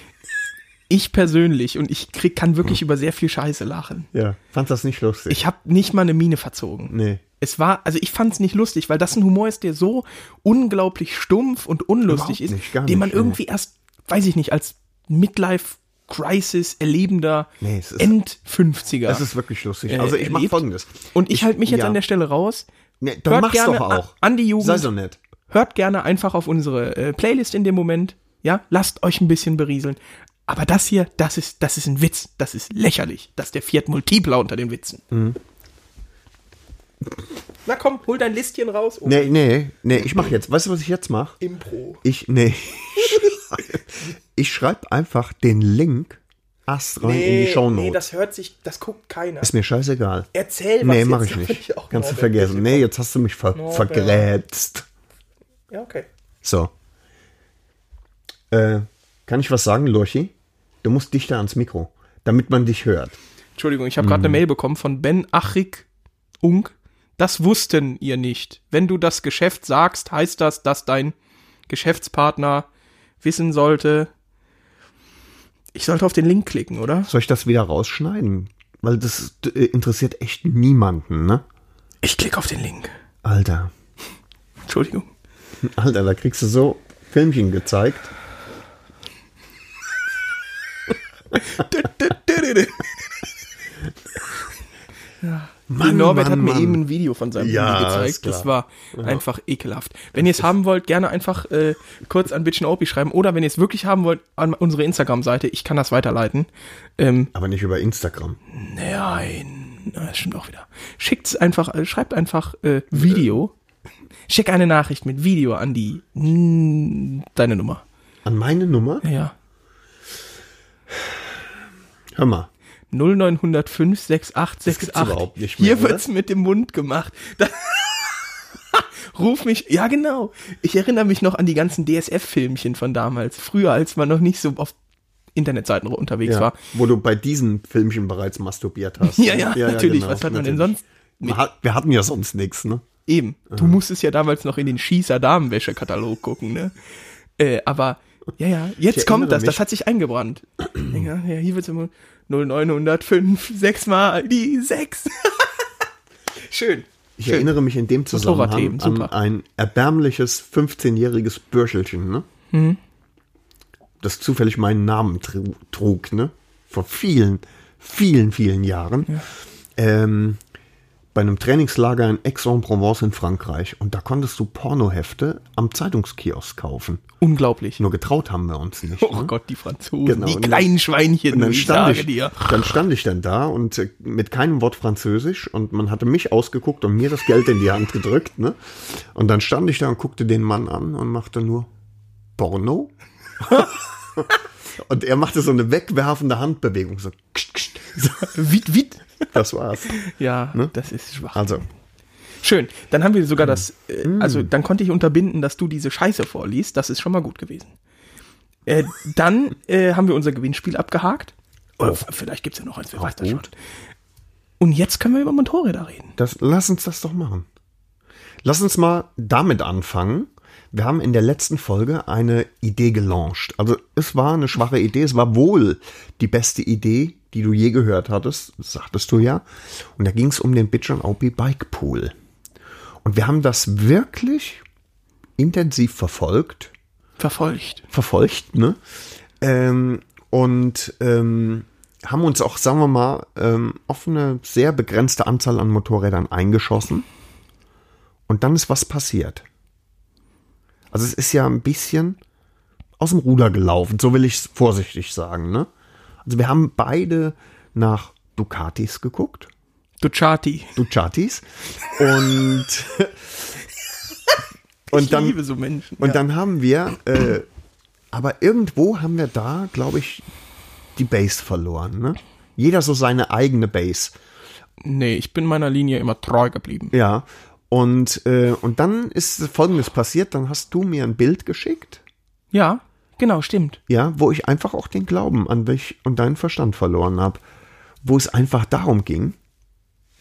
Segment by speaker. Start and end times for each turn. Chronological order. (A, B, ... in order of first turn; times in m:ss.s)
0:00.9-0:04.1 A
0:04.1-0:05.4 B
0:05.3-0:19.2 A
0:06.9-0:07.2 B
0:12.1-0:13.4 B
0:17.6-0:18.1 B
0:19.1-0:22.0 B
0:19.9-0:22.7 A
0:23.0-0:25.2 B
0:23.3-0:24.9 A
0:25.5-0:35.0 A
0:35.1-0:35.4 B
0:37.6-0:39.4 A
0:39.0-0:41.4 B
0:41.4-0:42.0 A
0:42.0-0:48.0 B
0:47.0-0:49.5 A
0:49.4-0:50.3 B
0:50.3-0:52.8 A
0:50.8-0:54.9 B
0:53.5-0:54.3 A
0:55.7-0:56.1 A
0:56.4-0:56.7 B
0:58.5-1:03.2 B
1:03.6-1:05.9 A
1:04.0-1:04.4 B
1:06.4-1:11.1 A
1:11.7-1:12.7 A
1:13.2-1:14.1 A
1:15.7-1:17.1 A
1:17.1-1:21.4 B
1:22.0-1:22.9 A
1:23.2-1:23.7 B
1:24.7-1:25.1 A
1:25.6-1:28.1 B
1:31.5-1:33.0 A
1:35.2-1:47.3 A
1:35.7-1:36.8 B
1:37.4-1:39.2 B
1:40.2-1:40.5 B
1:47.4-1:48.4 B
1:48.5-1:53.5 A
1:52.9-1:53.3 B
1:54.3-1:57.8 A
1:58.2-1:59.0 B
1:59.0-1:59.4 A
2:02.2-2:02.5 B
2:02.9-2:14.8 A
2:04.7-2:06.0 B
2:15.4-2:16.6 A
2:16.2-2:22.8 B
2:19.0-2:21.4 A
2:23.1-2:26.7 A
2:23.5-2:23.8 B
2:27.4-2:35.5 A
2:28.9-2:29.6 B
2:36.5-2:37.5 A
2:37.2-2:42.3 B
2:38.1-2:39.1 A
2:42.5-2:42.8 A
2:44.0-2:49.2 B
2:49.8-2:50.4 B
2:51.1-2:57.0 B
2:57.2-2:57.8 A
2:57.8-2:59.3 B
2:59.0-3:02.7 A
3:00.0-3:00.7 B
3:01.3-3:11.7 B
3:12.4-3:18.4 B
3:18.2-3:19.4 A
3:19.3-3:20.7 B
3:20.0-3:21.7 A
3:21.3-3:21.6 B
3:22.4-3:27.7 A
3:23.4-3:24.5 B
3:28.7-3:33.5 A
3:33.0-3:33.5 B
3:34.6-3:36.2 A
3:36.2-3:37.5 B
3:38.4-3:52.1 B
3:53.0-3:54.6 B
3:55.4-3:56.7 B
3:57.2-3:57.8 A
3:57.9-3:58.8 B
3:59.4-4:07.0 B
4:08.3-4:09.4 B
4:10.9-4:12.2 B
4:13.0-4:15.7 B
4:16.2-4:19.5 B
4:20.0-4:20.8 A
4:20.8-4:23.6 B
4:24.9-4:25.4 B
4:24.9-4:26.2 A
4:26.0-4:27.5 B
4:28.1-4:30.3 B
4:31.0-4:34.2 B
4:34.8-4:36.9 A
4:36.9-4:42.0 B
4:42.5-4:43.8 A
4:43.9-4:47.4 B
4:48.0-4:49.4 B